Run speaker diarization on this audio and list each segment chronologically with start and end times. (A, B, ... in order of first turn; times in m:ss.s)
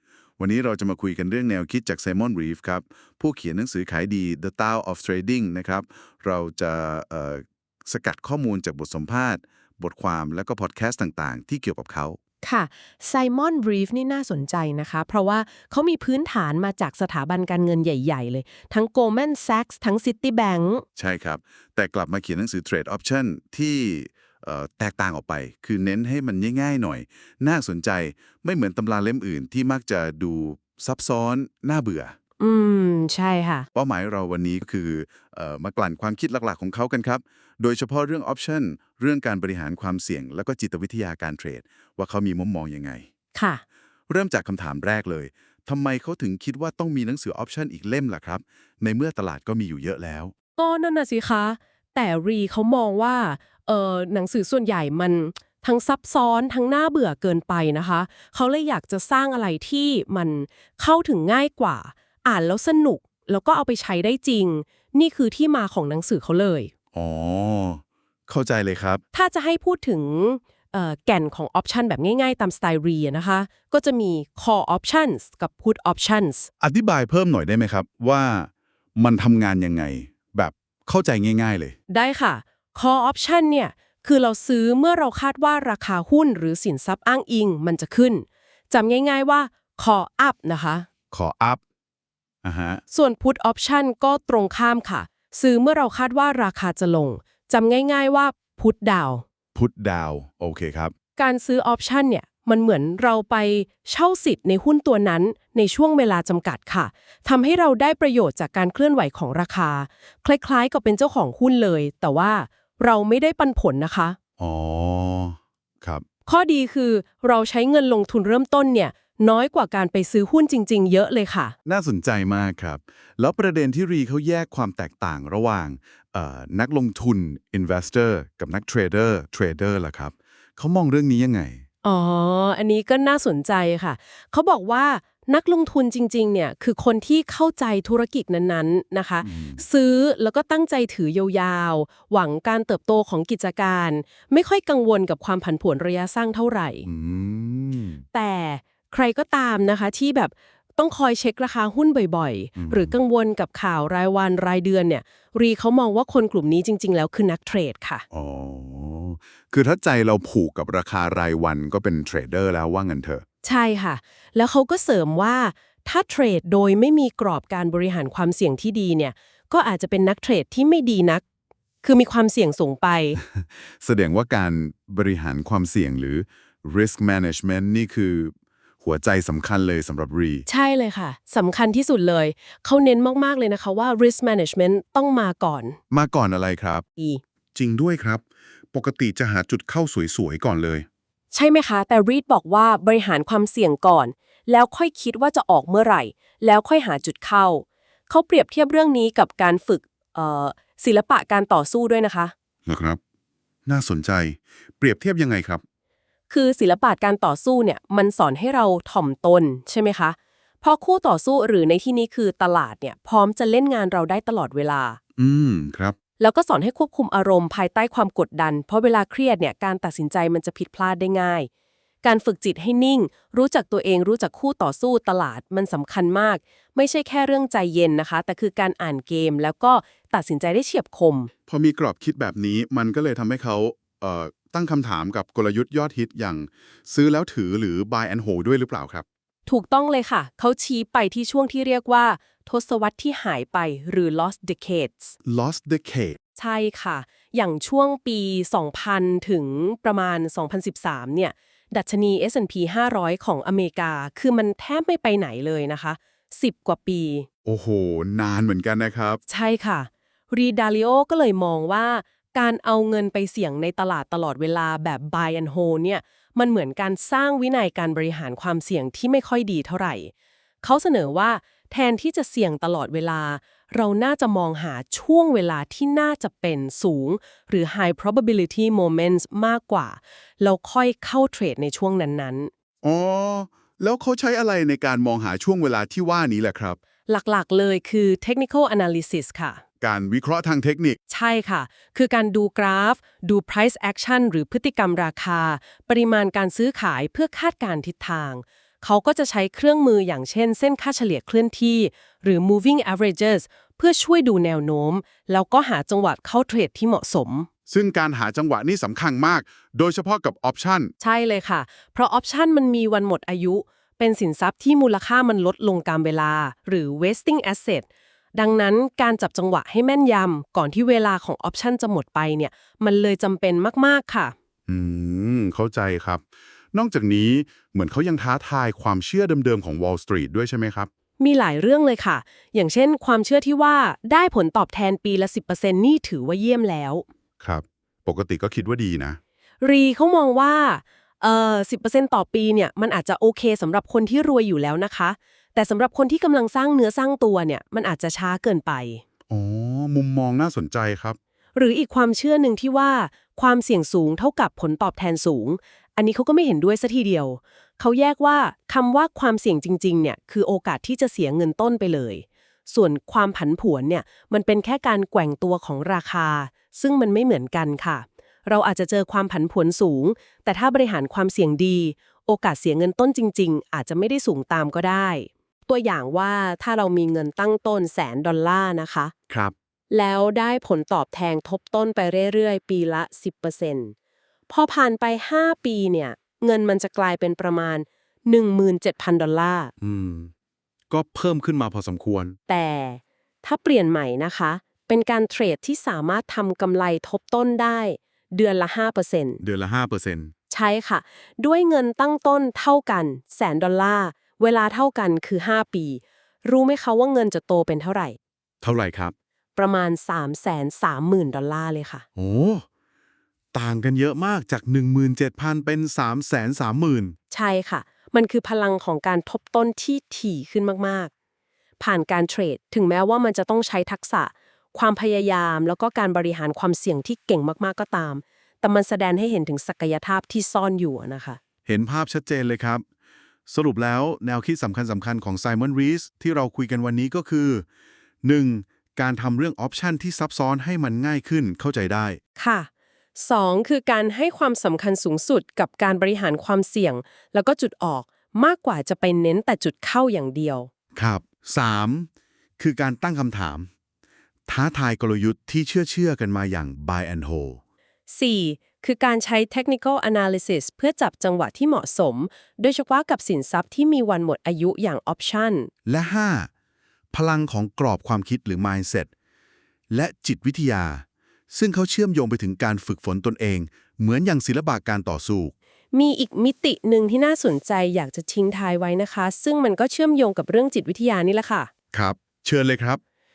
0:00.4-0:12.2 A
0:12.4-0:20.8 B
0:21.0-0:32.1 A
0:32.4-0:33.7 B
0:33.7-0:43.0 A
0:43.3-0:43.6 B
0:44.1-0:50.3 A
0:50.6-1:06.7 B
1:06.9-1:09.0 A
1:09.1-1:16.5 B
1:16.6-1:21.7 A
1:21.9-1:30.9 B
1:31.1-1:31.6 A
1:32.4-1:32.8 A
1:32.9-1:39.2 B
1:39.5-1:40.9 A
1:41.2-1:54.2 B
1:54.4-1:56.0 A
1:56.3-2:01.6 B
2:01.6-2:11.6 A
2:11.8-2:26.8 B
2:19.2-2:19.6 A
2:26.8-2:28.0 A
2:28.1-2:38.0 B
2:32.6-2:32.9 A
2:38.1-2:43.2 A
2:43.4-2:51.2 B
2:51.8-2:53.2 B
2:53.2-3:00.4 A
3:00.5-3:05.8 B
3:05.9-3:06.8 A
3:07.5-3:08.2 A
3:08.7-3:10.8 A
3:11.3-3:22.3 B
3:22.7-3:23.0 A
3:23.6-3:25.6 A
3:26.3-3:35.0 B
3:35.2-3:35.9 A
3:36.2-3:41.5 B
3:42.0-3:51.3 B
3:51.5-3:59.0 A
3:59.5-4:05.2 B
4:05.2-4:06.2 A
4:06.4-4:17.2 B
4:17.4-4:19.2 A
4:19.3-4:42.5 B
4:42.8-4:46.8 A
4:47.1-4:49.6 B
4:49.8-4:51.0 A
4:51.1-5:07.5 B
5:07.7-5:10.9 A
5:11.0-5:24.3 B
5:24.7-5:30.9 A
5:31.2-5:37.0 B
5:37.4-5:39.2 A
5:39.6-5:49.0 B
5:49.3-5:51.2 A
5:51.5-6:19.1 B
6:19.9-6:23.9 B
6:24.5-6:29.7 B
6:29.8-6:30.3 A
6:30.9-6:32.4 A
6:32.5-6:39.4 B
6:39.4-6:40.3 A
6:40.5-6:48.2 B
6:48.6-6:49.1 A
6:49.6-6:52.0 B
6:52.2-6:52.6 A
6:53.5-6:57.2 A
6:57.3-7:01.1 B
7:01.8-7:11.4 B
7:11.6-7:12.8 A
7:13.5-7:17.6 A
7:18.2-7:22.2 A
7:22.4-7:30.7 B
7:31.0-7:33.7 A
7:34.5-7:37.6 A
7:38.1-7:45.7 B
7:45.8-7:46.5 A
7:47.1-7:49.1 A
7:49.9-7:55.5 A
7:55.9-8:01.7 B
8:01.9-8:03.0 A